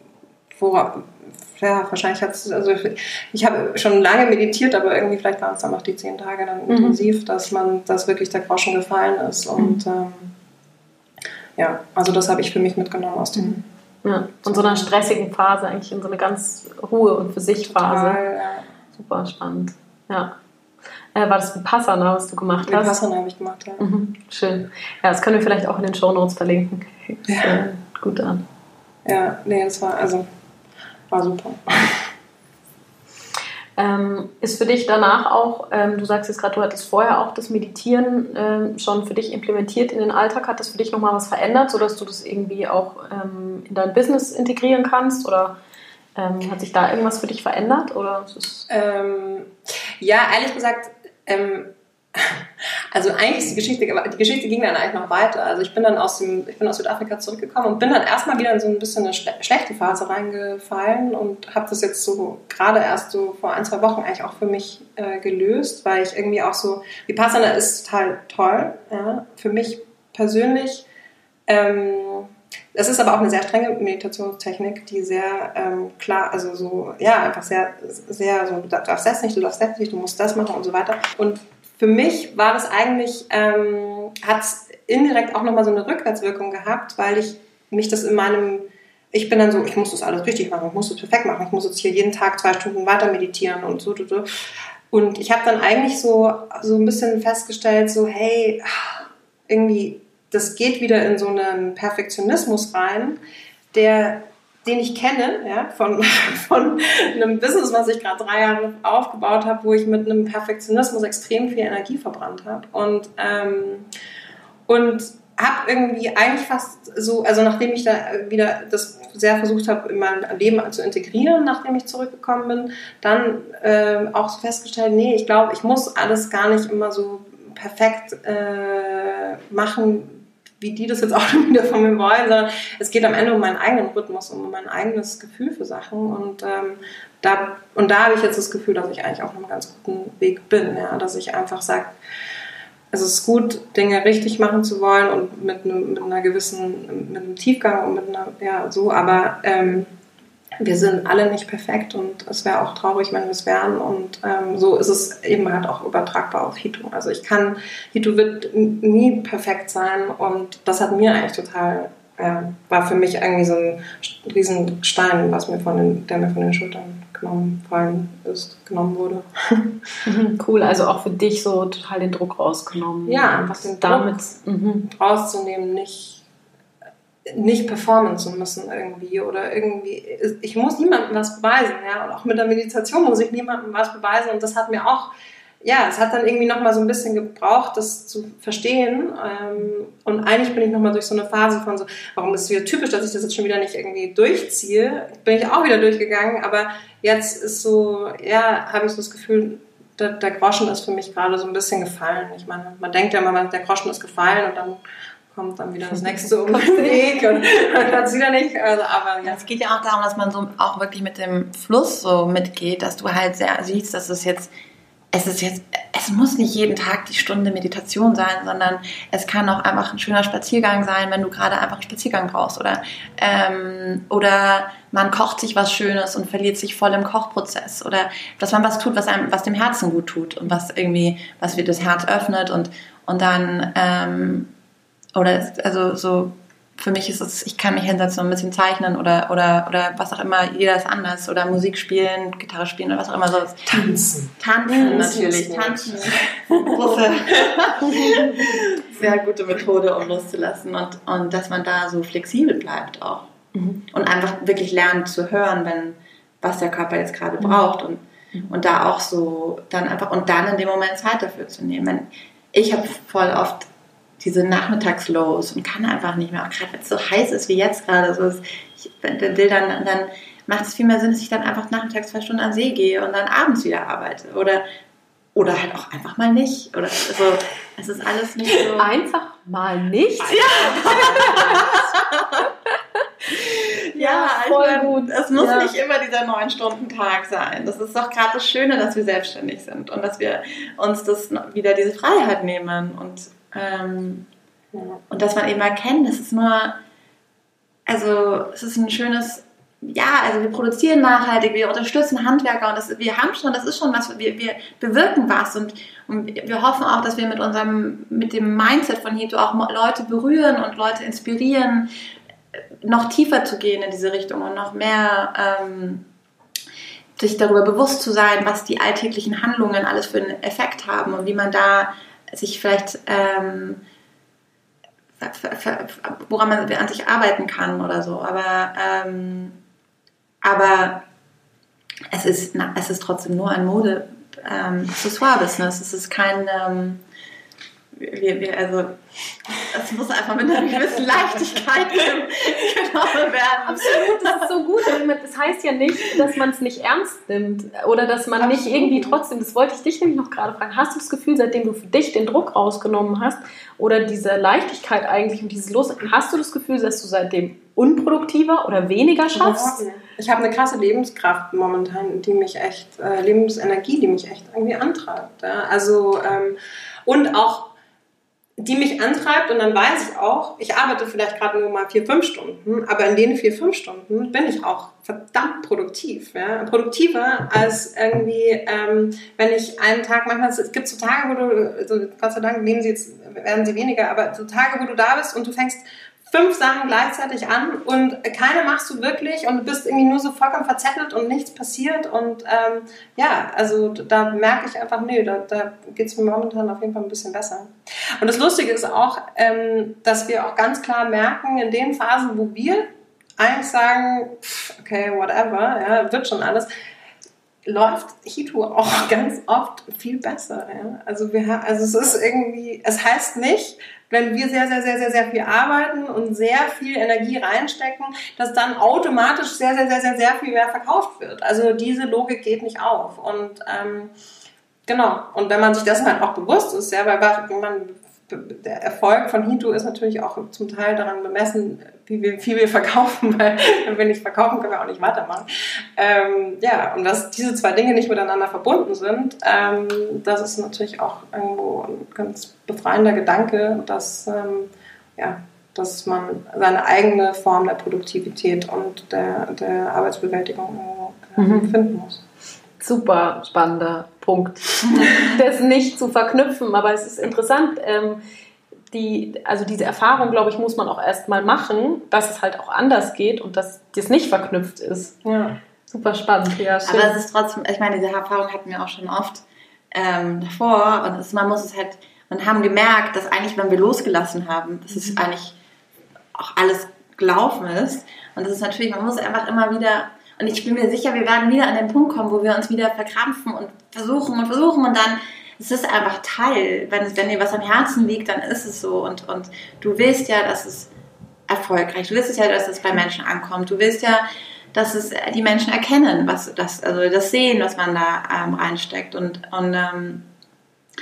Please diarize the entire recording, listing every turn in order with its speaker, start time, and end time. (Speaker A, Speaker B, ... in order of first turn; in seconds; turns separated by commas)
Speaker A: 0.5-10.3, Speaker B: 6.7-7.0, Speaker A: 11.6-13.6, Speaker B: 13.4-18.2, Speaker A: 14.5-14.9, Speaker A: 17.7-18.7, Speaker B: 18.9-20.4, Speaker B: 21.1-23.0, Speaker A: 22.6-23.9, Speaker B: 23.8-28.4, Speaker A: 27.3-27.6, Speaker A: 29.1-30.3, Speaker A: 31.1-32.0, Speaker B: 33.8-45.6, Speaker B: 46.2-48.7, Speaker A: 48.7-70.9, Speaker A: 71.5-94.3, Speaker A: 94.9-103.2, Speaker A: 103.7-113.9, Speaker A: 114.7-142.0, Speaker A: 142.9-149.9, Speaker A: 150.6-169.8, Speaker B: 170.1-174.9, Speaker A: 173.1-174.3, Speaker A: 174.9-176.2, Speaker A: 177.3-209.4, Speaker B: 206.4-207.1, Speaker C: 209.2-214.5, Speaker C: 215.1-234.5, Speaker C: 235.2-253.3, Speaker A: 243.7-248.2, Speaker C: 253.8-263.7, Speaker C: 264.2-274.6, Speaker C: 275.4-278.9, Speaker B: 278.8-281.7, Speaker C: 280.2-282.5, Speaker A: 280.5-281.3, Speaker C: 283.3-294.3, Speaker B: 283.6-285.7, Speaker A: 294.7-295.0, Speaker C: 295.1-296.8, Speaker C: 297.9-311.9, Speaker C: 312.8-316.1, Speaker C: 317.2-323.8, Speaker C: 325.2-329.6, Speaker C: 330.4-331.1, Speaker C: 332.1-337.0, Speaker C: 337.9-339.0, Speaker C: 339.6-344.5, Speaker B: 343.6-359.8, Speaker A: 348.4-349.2, Speaker A: 359.3-367.7, Speaker A: 368.6-406.7, Speaker A: 407.6-424.1, Speaker A: 424.9-452.2, Speaker B: 451.4-451.7, Speaker B: 452.8-458.2, Speaker C: 455.0-455.3, Speaker B: 458.9-465.2, Speaker A: 465.2-465.6, Speaker B: 465.9-467.2, Speaker C: 466.8-475.6, Speaker C: 476.4-490.9, Speaker C: 491.5-500.2